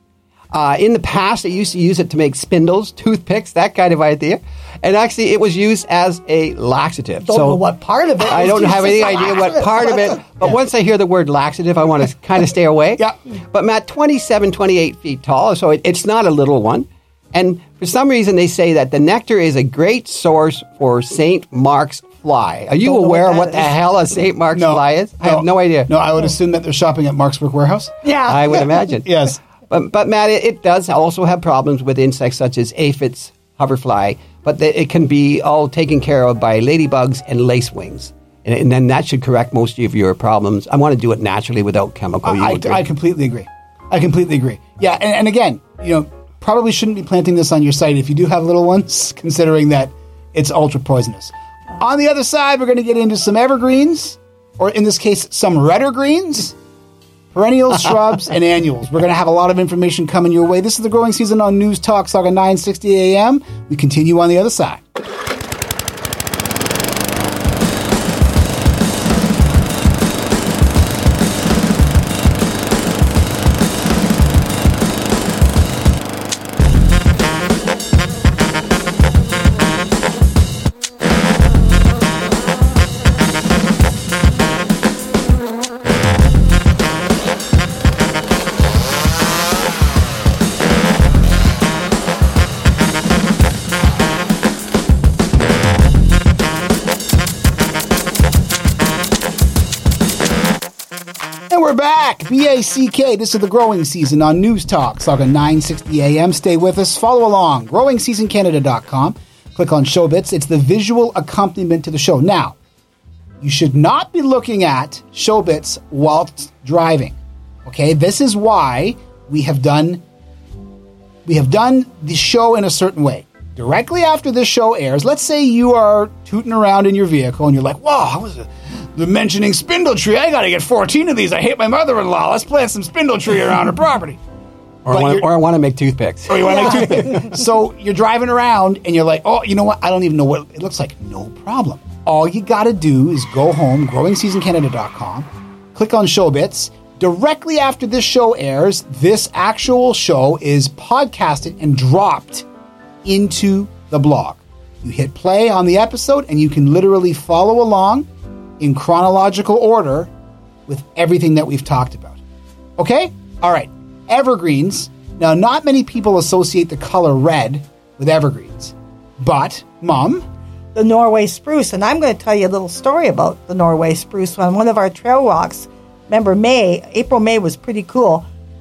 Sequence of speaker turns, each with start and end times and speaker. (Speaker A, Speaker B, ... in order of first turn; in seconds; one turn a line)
Speaker A: 0.5-7.6
Speaker B: 7.2-10.2
Speaker A: 8.2-25.9
Speaker B: 22.8-23.7
Speaker C: 24.5-29.4
Speaker B: 28.0-28.6
Speaker A: 28.3-42.8
Speaker C: 42.2-56.6
Speaker C: 57.3-64.8
Speaker C: 101.5-112.6
Speaker C: 113.4-120.0
Speaker C: 121.2-134.2
Speaker A: 134.8-137.1
Speaker C: 134.9-135.3
Speaker C: 136.3-152.4
Speaker B: 136.4-137.2
Speaker C: 153.0-158.1
Speaker C: 158.6-160.1
Speaker C: 160.7-162.2
Speaker C: 162.8-170.2
Speaker B: 170.8-178.3